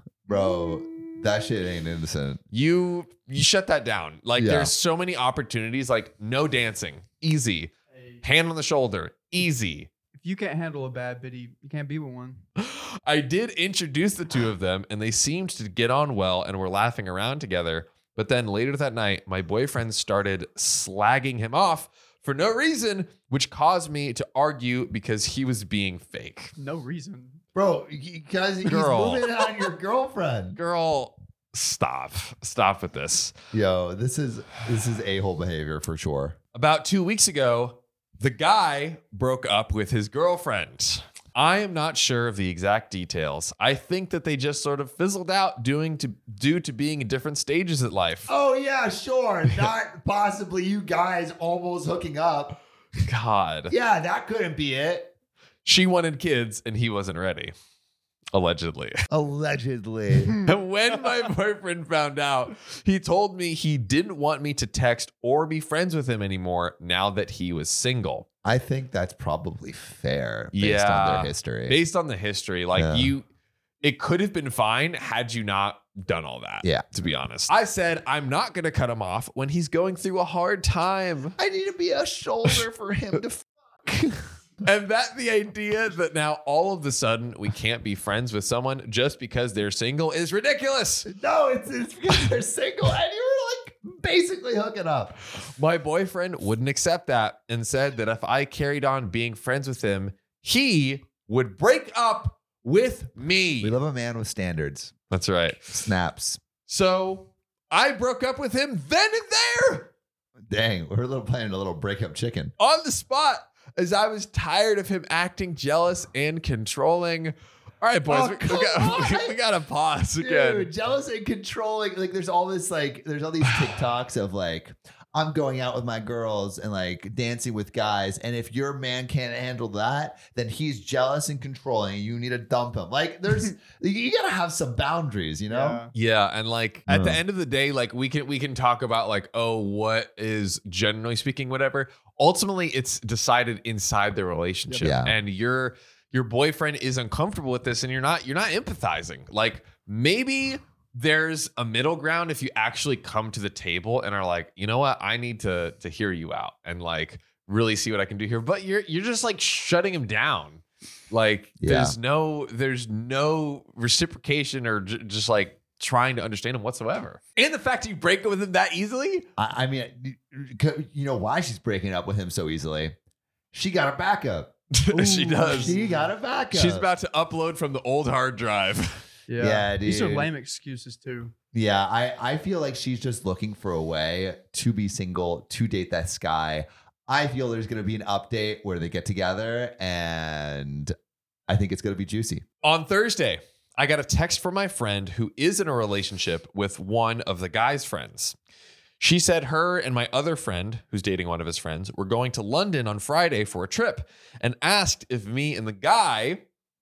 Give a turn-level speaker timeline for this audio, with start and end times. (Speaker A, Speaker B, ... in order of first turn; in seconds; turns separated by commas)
Speaker A: 0.3-2.4, Speaker B: 2.5-9.9, Speaker A: 4.4-4.7, Speaker C: 7.9-8.2, Speaker C: 10.1-12.4, Speaker B: 12.6-26.5, Speaker C: 26.6-27.4, Speaker A: 27.5-30.6, Speaker B: 28.6-29.3, Speaker B: 30.6-33.3, Speaker A: 33.5-36.4, Speaker B: 36.5-48.3, Speaker A: 48.3-52.6, Speaker B: 53.0-53.7, Speaker A: 53.7-55.1, Speaker B: 55.6-57.5, Speaker B: 58.3-59.0, Speaker A: 59.1-60.4, Speaker B: 60.4-68.3, Speaker A: 68.4-71.8, Speaker B: 70.5-73.2, Speaker A: 72.8-73.1, Speaker B: 73.8-81.3, Speaker A: 81.4-84.2, Speaker B: 84.6-91.1, Speaker A: 91.0-95.2, Speaker B: 95.5-103.8, Speaker A: 103.6-104.9, Speaker B: 105.1-105.8, Speaker A: 105.7-106.4, Speaker B: 106.7-109.9, Speaker A: 110.5-112.5, Speaker B: 112.6-120.7, Speaker A: 118.1-119.4, Speaker A: 120.2-135.8, Speaker C: 135.5-135.9, Speaker B: 135.9-169.3, Speaker A: 136.9-137.2, Speaker A: 144.8-145.2, Speaker A: 161.6-162.0, Speaker A: 169.4-173.0, Speaker A: 173.5-174.5, Speaker B: 174.7-175.8, Speaker C: 174.9-176.1, Speaker A: 175.5-176.9, Speaker B: 176.5-179.0, Speaker C: 179.3-181.3, Speaker A: 179.4-180.3, Speaker A: 181.5-190.9, Speaker A: 191.5-192.4, Speaker B: 192.6-198.4, Speaker B: 199.0-206.4